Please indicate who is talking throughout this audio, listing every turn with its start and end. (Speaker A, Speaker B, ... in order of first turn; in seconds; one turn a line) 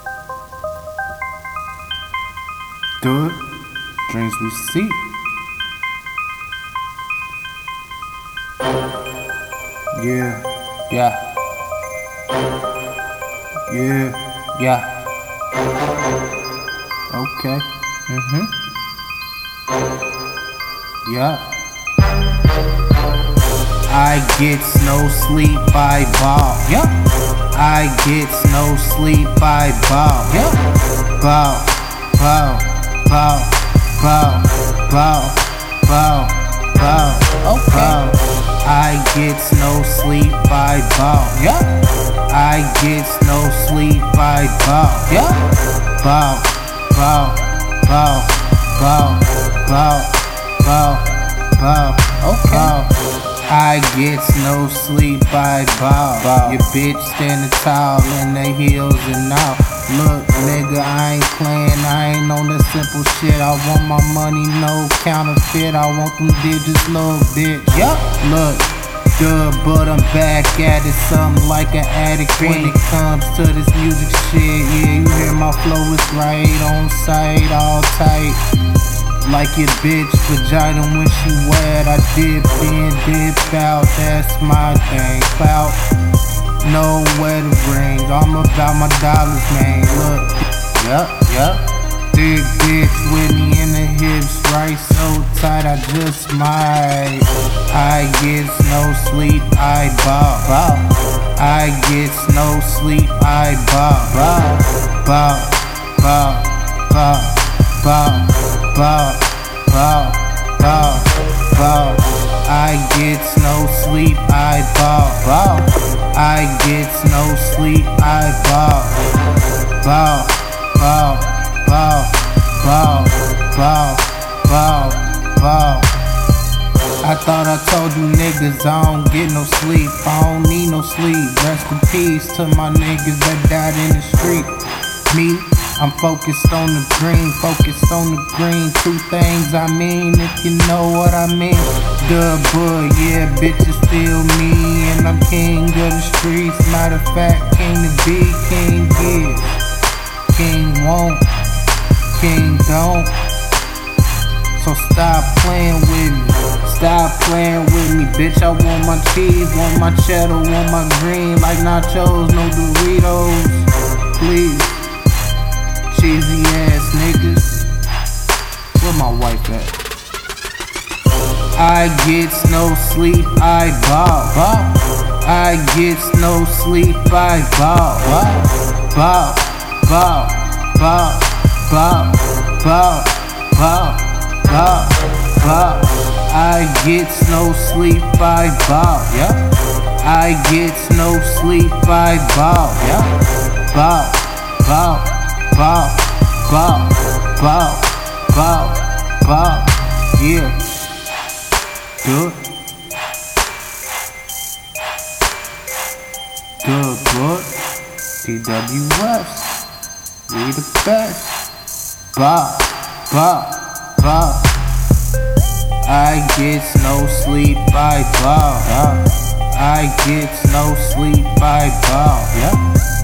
Speaker A: 3.0-3.4
Speaker A: 4.1-5.0
Speaker A: 9.9-11.2
Speaker A: 13.7-14.9
Speaker A: 17.1-18.5
Speaker A: 21.0-21.5
Speaker A: 23.9-30.6
Speaker A: 31.1-53.0
Speaker A: 53.5-78.4
Speaker A: 79.2-85.8
Speaker A: 86.6-119.0
Speaker A: 119.8-126.0
Speaker A: 127.0-134.5
Speaker A: 135.1-149.6
Speaker A: 150.3-151.3
Speaker A: 152.1-153.2
Speaker A: 154.6-164.9
Speaker A: 165.9-167.7
Speaker A: 168.8-169.8
Speaker A: 171.6-189.5
Speaker A: 190.0-193.2
Speaker A: 193.7-200.6
Speaker A: 202.0-202.4
Speaker A: 206.6-207.5
Speaker A: 208.2-209.6
Speaker A: 210.3-211.4
Speaker A: 212.1-214.6
Speaker A: 215.8-222.6